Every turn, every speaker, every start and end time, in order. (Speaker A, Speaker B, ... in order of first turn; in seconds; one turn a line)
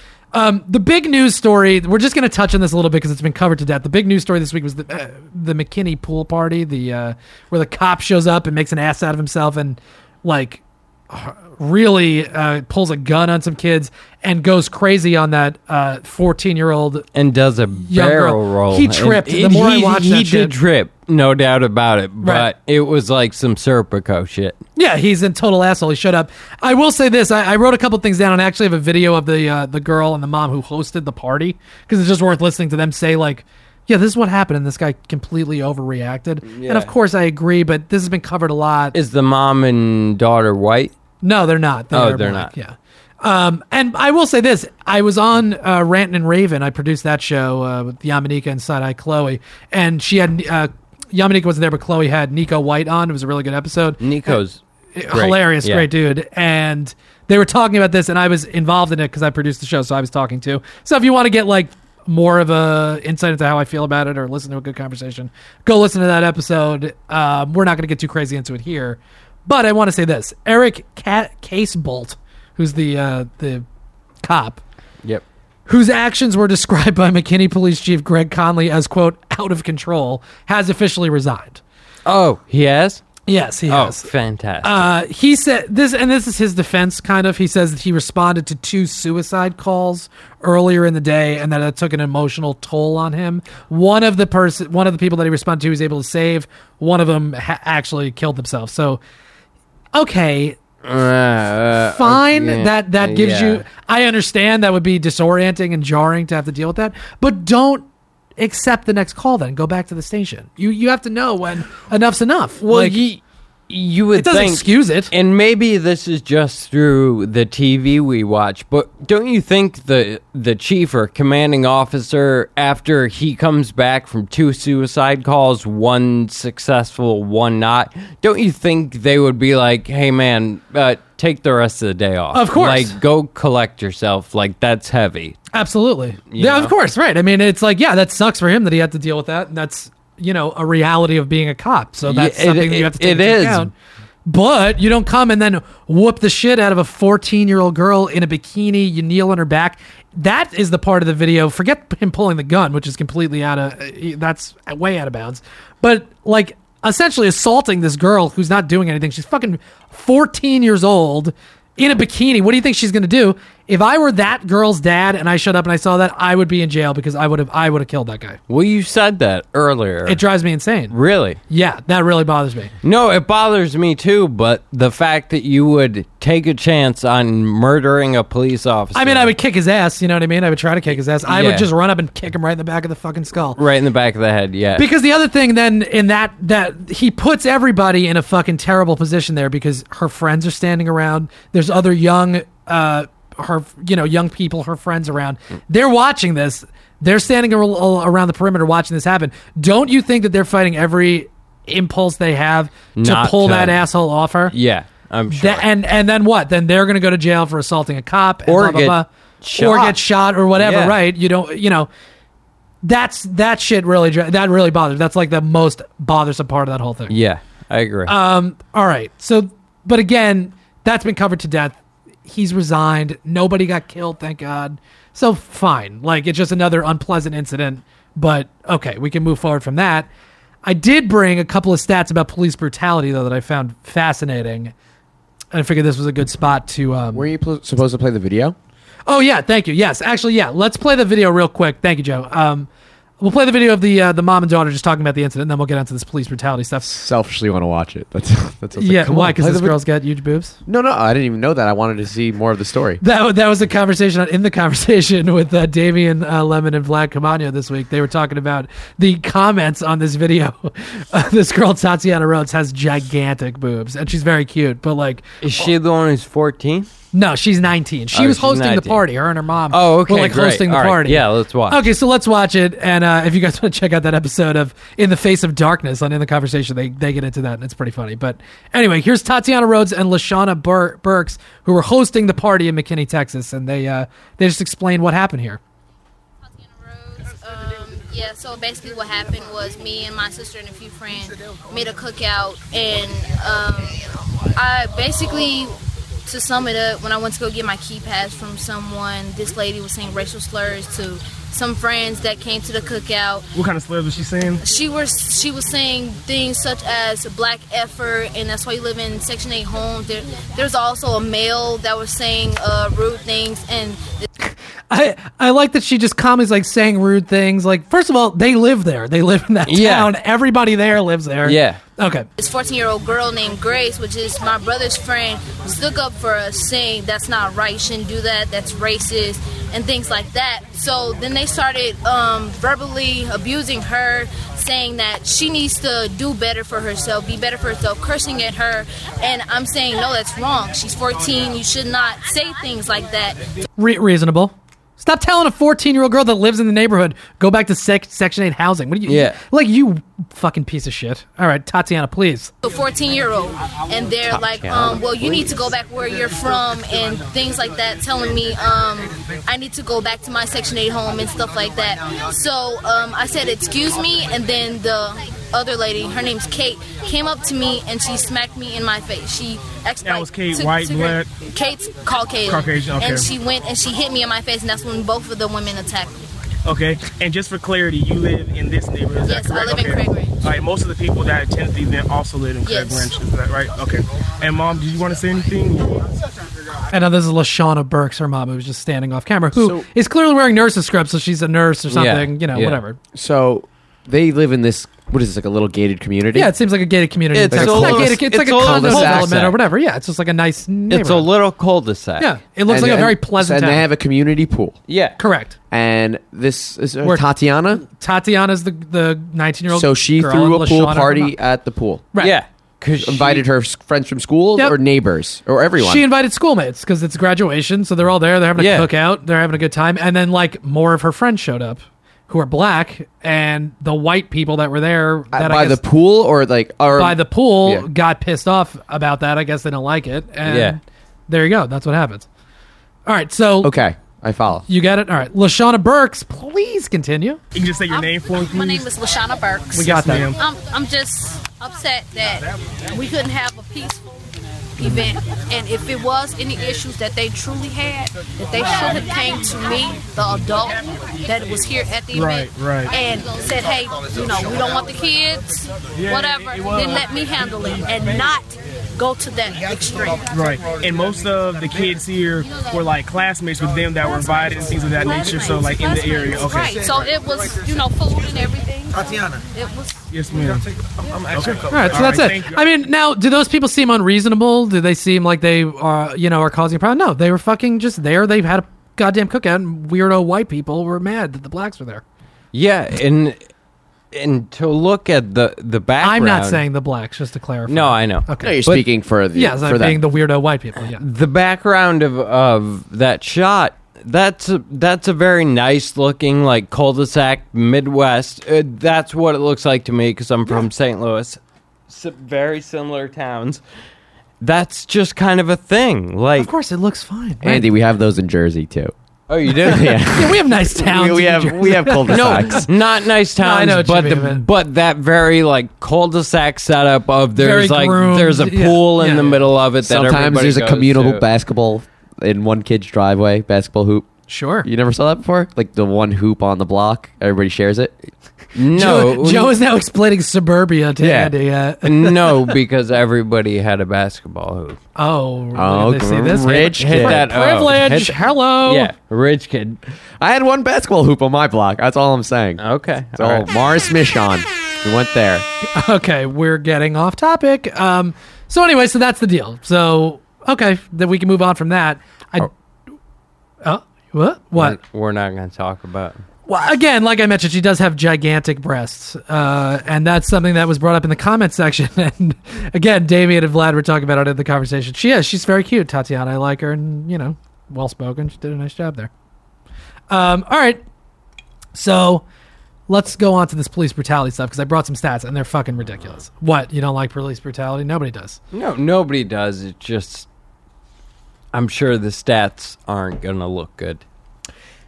Speaker A: 0.3-17.1
Speaker B: 17.1-24.6
Speaker A: 17.9-20.5
Speaker A: 22.2-22.5
Speaker A: 24.8-39.0
Speaker B: 36.5-36.9
Speaker B: 38.9-40.9
Speaker A: 41.2-54.4
Speaker B: 41.9-42.5
Speaker B: 54.0-55.9
Speaker A: 55.0-73.7
Speaker A: 74.2-74.6
Speaker A: 75.7-81.6
Speaker B: 82.1-83.0
Speaker A: 83.3-84.1
Speaker B: 83.7-84.9
Speaker A: 84.6-99.0
Speaker A: 99.9-100.6
Speaker B: 100.8-103.6
Speaker A: 101.9-107.8
Speaker A: 108.4-113.0
Speaker B: 112.6-135.4
Speaker A: 114.1-115.1
Speaker A: 132.3-133.0
Speaker A: 135.5-143.7
Speaker B: 136.3-136.7
Speaker B: 142.1-143.7
Speaker A: 144.3-168.4
Speaker B: 168.5-170.2
Speaker A: 170.1-170.9
Speaker B: 170.9-171.4
Speaker A: 171.5-172.7
Speaker B: 172.8-179.3
Speaker A: 178.9-183.6
Speaker B: 181.2-181.7
Speaker B: 183.6-184.9
Speaker A: 184.8-204.5
Speaker B: 203.0-203.8
Speaker B: 204.5-205.7
Speaker A: 205.3-211.9
Speaker B: 208.5-211.0
Speaker A: 212.8-217.1
Speaker B: 217.1-218.2
Speaker A: 218.1-230.1
Speaker A: 230.6-234.7
Speaker A: 235.5-237.3
Speaker C: 237.1-238.6
Speaker A: 239.1-242.7
Speaker A: 243.2-247.0
Speaker C: 246.9-249.8
Speaker A: 248.8-250.6
Speaker C: 250.7-253.0
Speaker A: 253.0-265.7
Speaker B: 265.4-266.9
Speaker A: 267.1-285.6
Speaker B: 268.1-269.1
Speaker B: 269.7-271.9
Speaker D: 286.4-294.0
Speaker D: 294.6-303.5
Speaker E: 303.6-304.6
Speaker D: 304.6-314.3
Speaker A: 314.4-322.3
Speaker B: 319.7-320.1
Speaker B: 321.4-321.8
Speaker D: 322.4-343.4
Speaker A: 343.8-352.5
Speaker B: 349.1-349.4
Speaker D: 352.6-376.2
Speaker B: 354.3-355.6
Speaker E: 370.0-371.3
Speaker E: 372.5-373.3
Speaker E: 376.6-385.9
Speaker D: 379.2-380.4
Speaker D: 382.6-383.1
Speaker A: 386.9-393.0
Speaker C: 389.6-389.9
Speaker B: 391.9-392.8
Speaker C: 393.1-396.5
Speaker A: 396.3-401.3
Speaker B: 397.3-399.6
Speaker C: 397.5-399.5
Speaker B: 400.9-402.3
Speaker A: 402.2-403.8
Speaker C: 402.7-404.9
Speaker B: 404.9-405.2
Speaker A: 405.2-405.6
Speaker C: 405.7-407.8
Speaker A: 407.8-411.3
Speaker C: 409.7-412.1
Speaker B: 412.2-413.4
Speaker C: 413.0-416.0
Speaker A: 415.8-425.8
Speaker B: 418.6-418.9
Speaker C: 425.3-427.9
Speaker A: 426.9-432.3
Speaker B: 430.4-430.8
Speaker A: 433.1-433.7
Speaker C: 433.6-434.6
Speaker A: 434.7-437.4
Speaker E: 437.5-438.9
Speaker D: 437.9-444.2
Speaker A: 439.8-440.3
Speaker E: 439.8-440.4
Speaker D: 444.8-460.4
Speaker E: 444.8-445.1
Speaker E: 452.1-452.9
Speaker E: 460.3-466.8
Speaker D: 462.4-462.9
Speaker D: 464.1-470.0
Speaker E: 470.1-470.6
Speaker E: 471.2-472.6
Speaker A: 471.7-482.0
Speaker B: 482.5-483.4
Speaker B: 484.1-486.6
Speaker A: 486.0-488.6
Speaker B: 487.7-488.8
Speaker C: 488.4-490.0
Speaker A: 489.3-491.0
Speaker B: 491.0-503.6
Speaker B: 504.4-506.5
Speaker A: 506.4-507.7
Speaker C: 507.4-508.9
Speaker B: 509.3-510.0
Speaker C: 509.5-512.7
Speaker A: 510.1-512.7
Speaker B: 512.1-521.2
Speaker A: 513.4-514.5
Speaker A: 517.4-519.4
Speaker C: 519.8-524.1
Speaker A: 524.3-524.7
Speaker C: 524.6-528.0
Speaker B: 528.5-529.5
Speaker A: 528.7-532.5
Speaker B: 531.0-534.8
Speaker A: 535.0-538.9
Speaker C: 535.5-537.2
Speaker B: 536.4-539.8
Speaker C: 540.2-542.6
Speaker B: 542.6-543.5
Speaker C: 543.2-545.5
Speaker A: 545.7-552.5
Speaker A: 553.6-554.8
Speaker B: 554.6-556.2
Speaker A: 556.5-569.1
Speaker A: 570.1-570.8
Speaker A: 571.7-572.2
Speaker A: 572.9-578.4
Speaker B: 578.5-580.3
Speaker B: 581.5-584.0